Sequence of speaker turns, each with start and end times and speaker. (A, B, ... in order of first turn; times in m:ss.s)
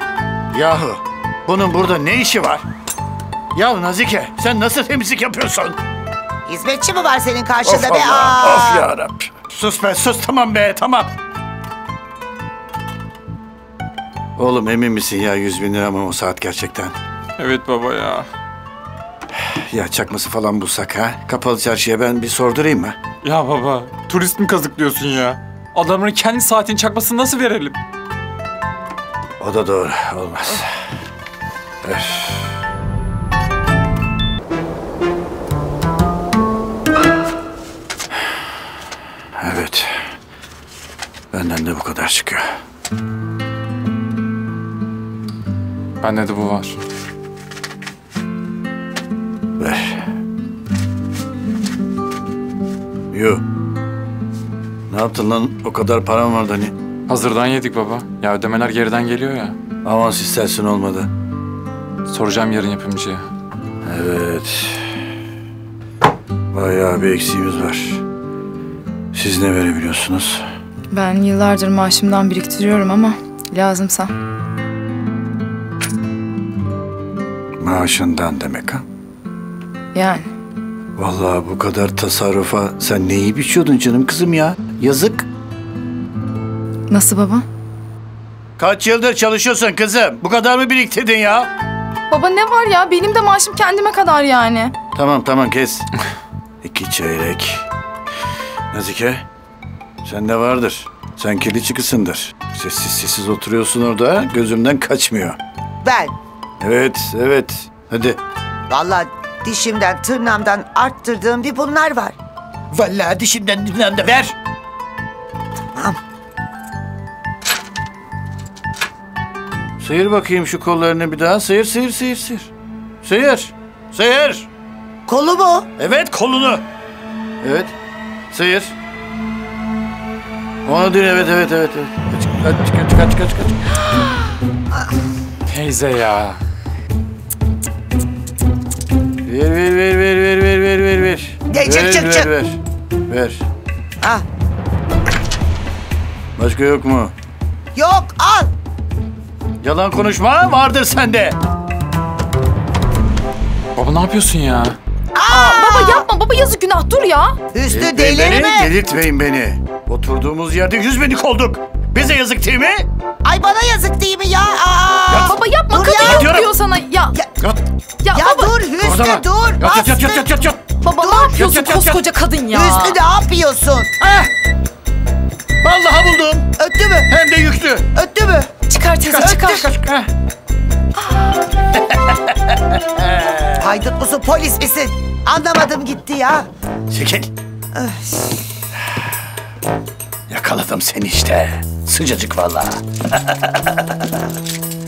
0:00.5-0:02.6 A
0:03.5-0:05.8 A
0:06.4-0:08.9 B
0:07.6-0:11.1 A
0:14.4-0:17.0 A
0:17.4-0:18.3 C
0:19.4-0:23.0 A
0:23.2-0:27.8 C
0:29.4-0:30.7 A
0:31.8-0:32.6 A
0:39.4-0:40.0 A
0:41.3-0:42.5 A
0:46.0-0:46.8 C
0:49.6-0:50.0 A
0:53.1-0:53.4 A
0:54.9-0:56.7 A
0:57.1-0:59.6 C
0:59.8-1:01.1 A
1:02.0-1:03.2 C
1:03.8-1:05.0 A
1:06.5-1:08.0 A
1:09.1-1:10.4 A
1:10.9-1:14.1 D
1:17.6-1:18.8 A
1:19.9-1:20.3 D
1:21.0-1:25.3 A
1:26.9-1:27.4 D
1:28.6-1:31.5 A
1:32.1-1:34.7 D
1:34.9-1:35.9 A
1:36.6-1:37.6 A
1:38.7-1:39.2 A
1:40.0-1:45.4 A
1:45.8-1:46.1 B
1:46.6-1:48.2 A
1:48.7-1:52.1 B
1:52.7-1:54.3 A
1:59.8-2:02.5 A
2:03.0-2:04.5 A
2:05.1-2:05.7 B
2:05.8-2:06.6 A
2:07.4-2:07.7 A
2:08.3-2:08.7 A
2:10.6-2:13.6 A
2:15.5-2:16.4 C
2:19.2-2:23.4 A
2:21.5-2:22.3 B
2:26.4-2:27.1 A
2:27.7-2:28.5 B
2:29.6-2:31.4 A
2:33.8-2:34.8 C
2:35.1-2:36.0 B
2:35.3-2:37.4 D
2:37.5-2:38.7 B
2:37.7-2:42.9 A
2:43.2-2:46.4 B
2:45.1-2:45.4 A
2:45.1-2:47.2 D
2:46.0-2:46.5 A
2:48.0-2:48.5 D
2:48.1-2:50.2 B
2:48.8-2:50.7 A
2:50.8-2:53.0 D
2:51.0-2:51.4 B
2:51.3-2:52.0 A
2:52.5-2:53.9 B
2:54.0-2:54.3 A
2:55.6-2:56.5 A
2:56.6-2:57.1 B
2:57.1-2:57.9 A
2:57.9-2:58.5 B
2:58.7-2:59.7 D
2:59.0-3:00.1 A
3:01.7-3:03.8 A
3:03.6-3:06.5 B
3:06.9-3:07.3 A
3:07.7-3:08.3 B
3:10.3-3:13.7 A